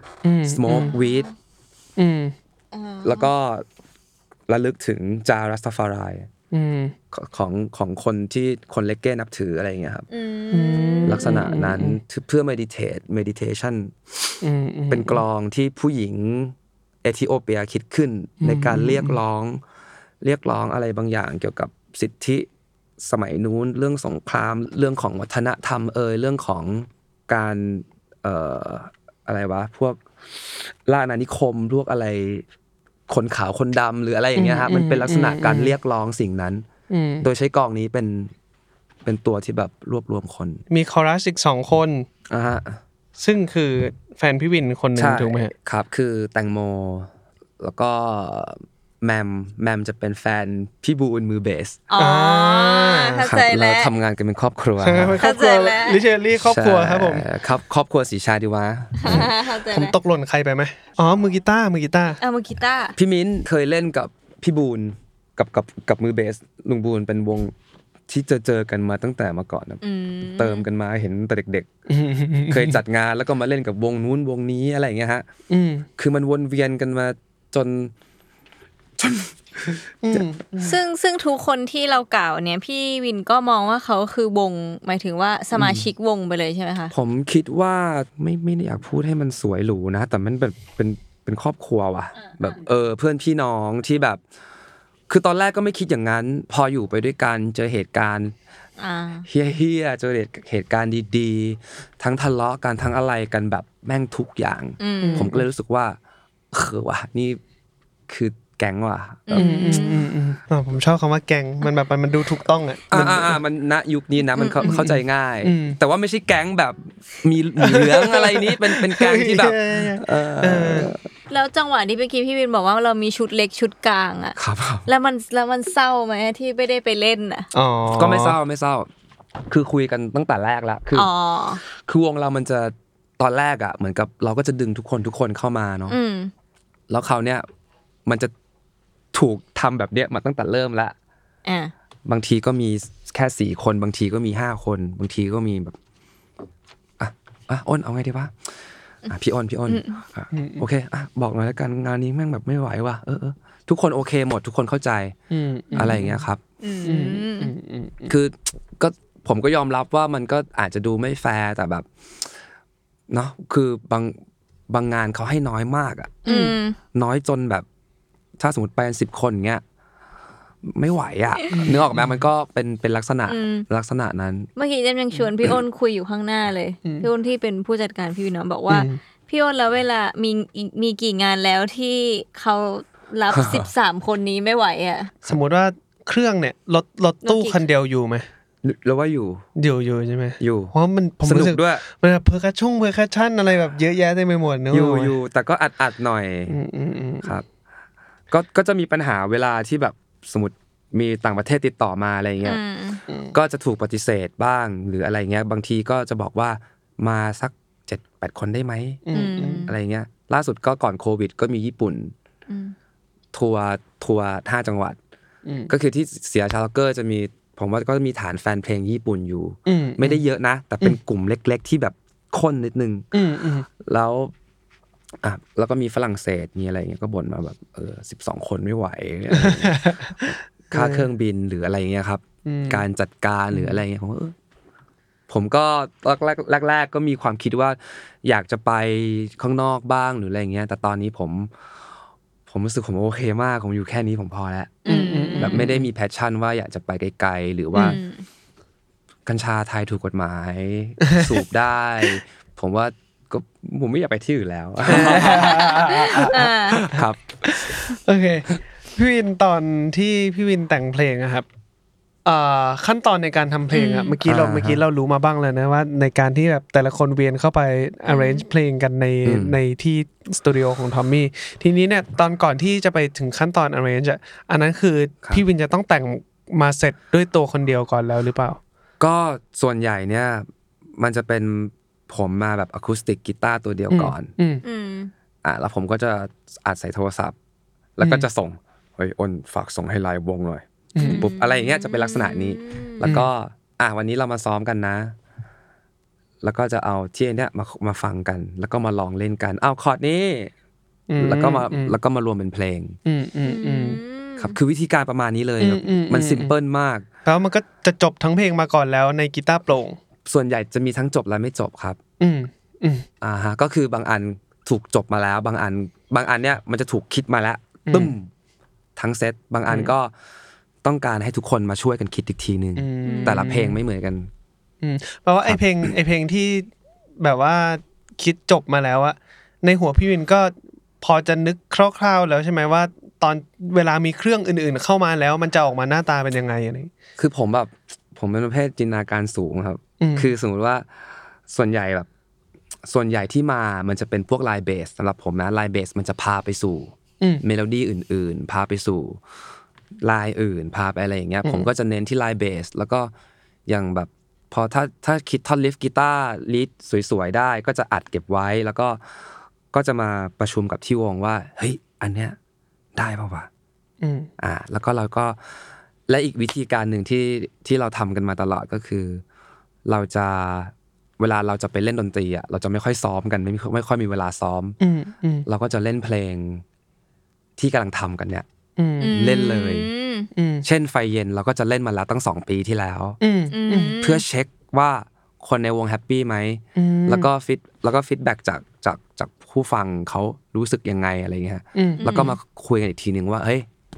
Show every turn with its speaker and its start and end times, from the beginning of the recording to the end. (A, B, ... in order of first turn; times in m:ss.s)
0:00.2-0:00.9 A
0:00.4-0:01.3 B
0:00.8-0:01.3 C
0:02.0-0:02.3 A
0:02.7-0:03.3 C
0:03.0-0:03.6 B
0:04.5-0:06.3 B
0:06.5-0:07.0 A
0:07.1-0:10.1 B
0:10.1-0:11.4 C
0:10.5-0:12.0 A
0:11.0-0:14.4 B
0:14.4-0:15.2 A
0:14.9-0:19.6 B
0:18.4-0:19.2 A
0:20.2-0:22.5 B
0:23.0-0:32.4 B
0:33.1-0:36.7 B
0:34.4-0:35.8 A
0:36.9-0:37.3 A
0:37.2-0:38.3 B
0:39.0-0:40.6 B
0:40.7-0:42.1 A
0:42.3-0:42.8 B
0:43.2-0:45.5 A
0:45.0-0:51.8 B
0:51.9-0:53.9 C
0:52.0-0:53.2 A
0:53.2-0:55.2 B
0:54.8-0:57.3 A
0:55.2-0:56.0 C
0:56.4-0:59.3 B
0:59.0-1:00.0 C
0:59.7-1:02.2 A
1:02.2-1:03.0 C
1:03.0-1:07.5 B
1:08.1-1:11.7 B
1:09.8-1:10.7 C
1:11.9-1:12.8 A
1:12.5-1:15.3 B
1:15.5-1:15.9 A
1:16.0-1:17.9 B
1:19.0-1:20.2 B
1:20.0-1:20.8 A
1:20.6-1:26.9 C
1:25.6-1:25.9 B
1:26.9-1:34.2 B
1:35.1-1:38.3 B
1:38.8-1:39.3 C
1:39.3-1:46.0 B
1:44.8-1:45.3 C
1:45.0-1:45.4 A
1:46.5-1:47.4 B
1:48.1-1:49.6 B
1:49.3-1:50.1 C
1:49.3-1:53.4 A
1:52.9-2:01.0 B
1:54.4-1:54.7 C
1:54.6-1:55.8 A
1:57.6-2:00.9 A
2:01.3-2:07.5 C
2:04.4-2:04.9 B
2:07.5-2:08.4 A
2:08.0-2:08.9 B
2:09.5-2:11.1 B
2:10.9-2:11.6 C
2:11.6-2:16.0 B
2:15.9-2:16.3 C
2:16.9-2:17.4 B
2:18.1-2:18.3 B
2:19.1-2:21.0 B
2:21.5-2:21.7 C
2:22.1-2:25.8 B
2:27.0-2:28.4 B
2:29.1-2:35.2 B
2:29.7-2:30.0 C
2:30.3-2:30.6 A
2:35.3-2:36.2 A
2:35.8-2:36.4 B
2:36.6-2:37.5 C
2:36.8-2:38.1 A
2:38.1-2:41.9 B
2:43.1-2:44.2 B
2:44.7-2:46.2 B
2:46.2-2:46.8 C
2:46.3-2:46.6 A
2:46.9-2:47.7 B
2:48.4-2:49.6 B
2:50.6-2:54.5 B
2:51.5-2:52.2 A
2:53.3-2:53.7 C
2:54.6-3:05.2 C
2:58.7-2:59.0 A
3:03.3-3:03.7 B
3:05.2-3:08.3 A
3:07.2-3:07.6 C
3:08.6-3:09.5 B
3:09.6-3:15.2 A
3:10.4-3:11.8 B
3:14.7-3:16.6 B
3:16.5-3:17.3 A
3:18.3-3:22.6 B
3:22.4-3:23.0 C
3:23.1-3:23.3 A
3:23.3-3:29.0 B
3:29.1-3:29.7 A
3:29.1-3:29.7 C
3:29.7-3:32.1 B
3:32.5-3:32.7 C
3:33.3-3:35.0 B
3:35.5-3:35.7 A
3:35.7-3:43.1 B
3:39.7-3:40.2 A
3:43.1-3:43.7 A
3:43.8-3:44.3 B
3:45.2-3:54.3 B
3:49.3-3:51.1 A
3:52.5-3:52.8 A
3:53.5-3:53.8 A
3:55.3-4:01.5 B
4:02.5-4:04.8 B
4:04.8-4:05.7 C
4:04.9-4:05.8 A
4:05.4-4:08.0 B
4:07.8-4:08.2 C
4:09.3-4:17.7 B
4:14.9-4:21.5 A
4:15.1-4:16.9 C
4:22.2-4:38.6 A
4:23.7-4:24.2 C
4:24.2-4:24.8 B
4:28.1-4:28.4 C
4:29.2-4:29.6 B
4:39.0-4:44.3 B
4:43.9-4:44.6 A
4:44.6-4:45.1 C
4:45.4-4:47.4 B
4:48.0-4:55.2 B
4:48.0-4:48.3 A
4:51.0-4:51.3 A
4:51.0-4:53.0 C
4:53.0-4:53.3 A
4:56.4-5:00.5 B
5:01.1-5:02.0 A
5:01.2-5:03.0 B
5:03.1-5:04.0 A
5:03.4-5:04.6 C
5:04.4-5:07.1 B
5:05.6-5:06.6 A
5:07.3-5:10.0 A
5:10.3-5:12.0 B
5:12.2-5:13.1 A
5:13.2-5:18.3 B
5:17.9-5:18.2 A
5:19.0-5:20.1 B
5:19.7-5:19.9 A
5:20.8-5:24.3 B
5:22.8-5:23.8 A
5:23.0-5:23.4 C
5:24.8-5:26.7 A
5:25.5-5:25.9 B
5:27.2-5:36.9 A
5:37.2-5:40.9 B
5:40.0-5:40.3 A
5:41.5-5:42.1 B
5:42.9-5:49.2 B
5:50.0-5:53.1 B
5:53.7-5:59.0 B
5:59.7-6:02.4 B
6:03.0-6:03.5 B
6:04.0-6:04.3 A
6:04.4-6:05.4 B
6:06.1-6:09.2 B
6:09.8-6:14.8 B
6:14.8-6:15.5 A
6:15.5-6:16.6 B
6:17.6-6:18.5 B
6:18.8-6:19.1 A
6:19.0-6:20.3 C
6:19.1-6:19.9 B
6:20.4-6:20.6 A
6:20.6-6:23.2 B
6:23.2-6:24.0 A
6:23.5-6:24.2 C
6:24.0-6:33.7 B
6:26.8-6:27.3 A
6:31.8-6:32.0 A
6:32.0-6:32.4 C